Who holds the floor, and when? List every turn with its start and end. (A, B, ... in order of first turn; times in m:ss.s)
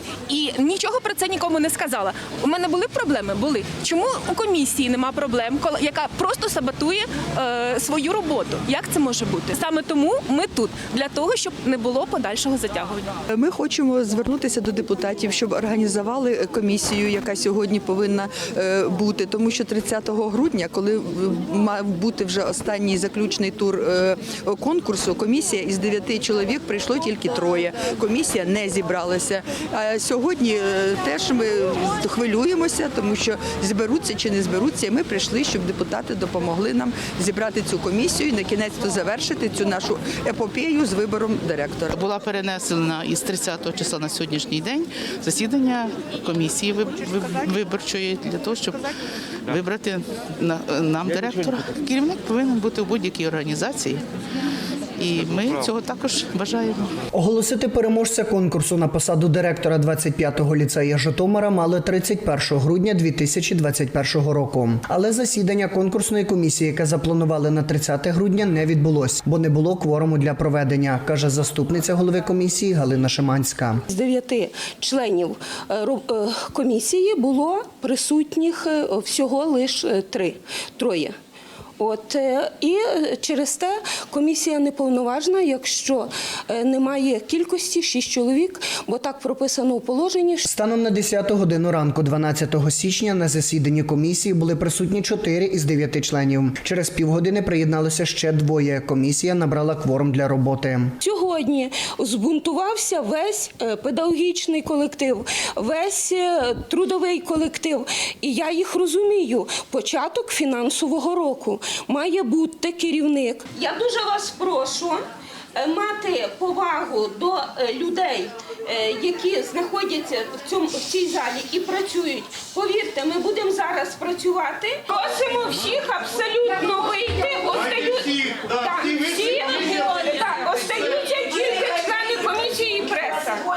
0:00.3-0:13.1 A
0:13.3-0:42.0 B
0:41.9-0:48.8 C
0:49.5-0:54.0 C
0:55.0-0:56.9 C
0:57.1-1:13.8 D
1:13.9-1:21.1 E
1:21.8-1:30.4 E
1:30.5-1:40.9 D
1:41.0-1:55.0 E
1:55.6-2:13.5 E